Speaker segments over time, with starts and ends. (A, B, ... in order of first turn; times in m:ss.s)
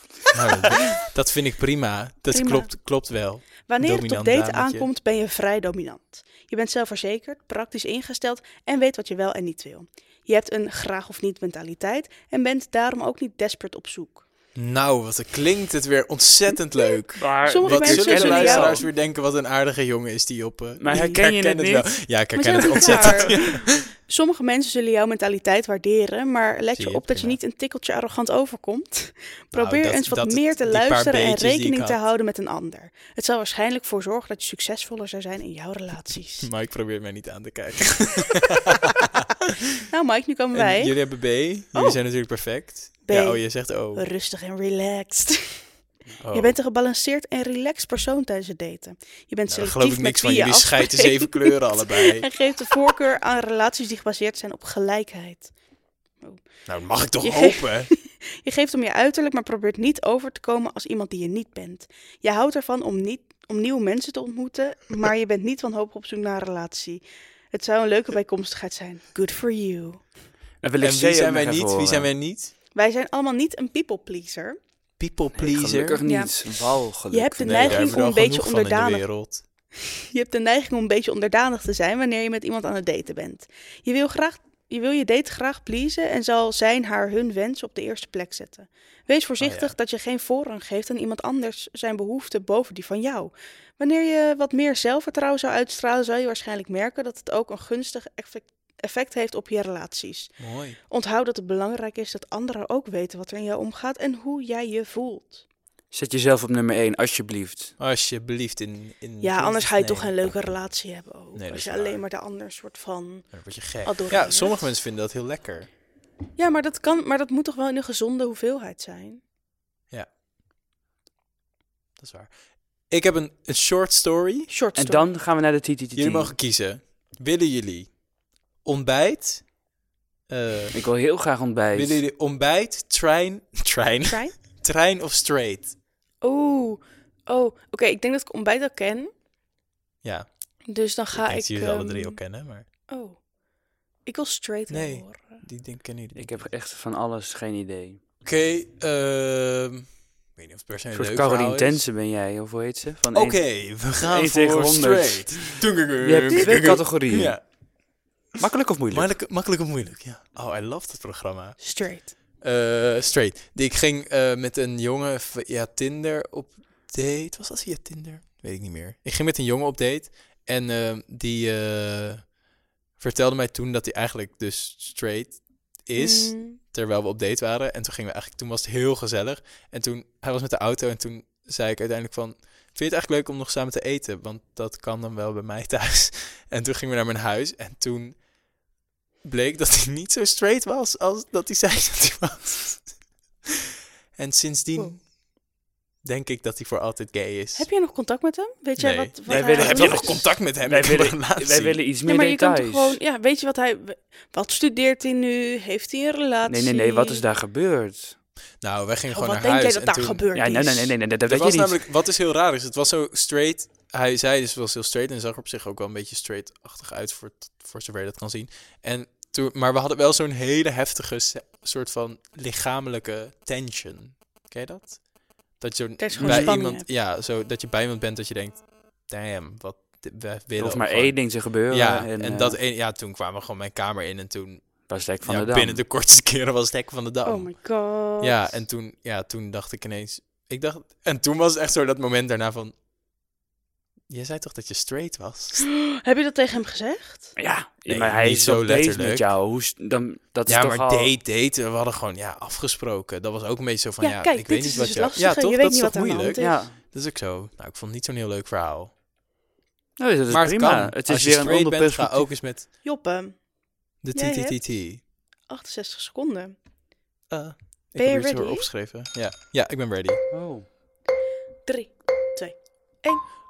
0:00.3-0:04.9 A
0:02.3-0:02.7 B
0:03.7-0:14.2 B
0:14.6-0:23.8 A
0:17.2-0:18.8 C
0:17.4-0:18.8 B
0:20.8-0:21.9 C
0:20.9-0:21.2 B
0:22.4-0:36.5 B
0:22.8-0:23.2 C
0:26.8-0:27.4 A
0:29.5-0:32.0 A
0:36.4-0:39.5 A
0:39.9-0:40.9 B
0:40.5-0:44.0 A
0:41.7-0:42.0 B
0:43.1-0:45.6 B
0:46.2-0:46.6 A
0:46.3-0:55.5 B
0:49.5-0:52.3 A
0:56.7-0:57.9 A
0:57.2-1:07.0 B
1:07.5-1:10.0 B
1:10.6-1:12.1 C
1:10.8-1:12.5 A
1:12.7-1:14.6 B
1:15.0-1:16.0 A
1:15.4-1:17.9 C
1:16.1-1:19.0 B
1:17.5-1:19.4 A
1:19.8-1:45.4 B
1:29.4-1:29.7 A
1:40.4-1:40.8 A
1:45.9-1:47.7 C
1:47.8-1:50.3 A
1:49.2-1:54.6 B
1:51.3-1:52.0 A
1:53.3-1:55.7 A
1:56.4-1:59.2 B
2:02.0-2:02.3 A
2:02.9-2:04.5 A
2:04.5-2:05.1 B
2:04.8-2:06.3 C
2:06.0-2:08.0 A
2:08.6-2:09.5 A
2:10.3-2:10.8 A
2:10.7-2:12.0 C
2:11.7-2:15.7 A
2:14.1-2:14.3 B
2:16.2-2:19.1 B
2:20.7-2:22.2 B
2:21.1-2:22.7 A
2:22.9-2:23.2 B
2:24.1-2:25.4 B
2:24.7-2:26.5 A
2:26.2-2:28.0 C
2:28.2-2:31.8 A
2:30.9-2:33.4 C
2:33.1-2:37.4 A
2:34.0-2:37.4 C
2:36.3-2:36.8 B
2:38.4-2:39.1 C
2:38.9-2:41.6 A
2:41.6-2:42.1 B
2:42.4-2:52.3 A
2:53.0-3:08.2 A
2:56.0-2:56.6 B
3:09.2-3:12.9 A
3:14.2-3:15.1 A
3:16.0-3:17.7 A
3:17.6-3:20.2 B
3:18.8-3:21.8 A
3:19.3-3:23.0 C
3:22.1-3:27.2 B
3:26.5-3:28.2 C
3:28.6-3:30.2 A
3:29.1-3:30.9 B
3:30.3-3:31.8 C
3:31.3-3:45.0 A
3:45.6-3:57.6 A
3:46.0-3:46.8 B
3:46.2-3:46.6 C
3:50.6-3:52.6 C
3:54.9-3:55.8 C
3:57.3-3:58.5 B
3:58.2-4:02.7 A
4:04.1-4:05.6 A
4:05.6-4:07.4 B
4:07.4-4:11.1 C
4:07.9-4:09.3 A
4:10.5-4:18.9 A
4:14.0-4:16.6 B
4:16.4-4:16.8 C
4:20.0-4:22.3 C
4:20.3-4:22.7 A
4:22.8-4:23.4 B
4:24.0-4:25.0 A
4:24.2-4:24.6 B
4:25.5-4:26.6 B
4:27.3-4:30.2 A
4:28.0-4:28.7 B
4:30.3-4:30.7 C
4:31.7-4:33.2 B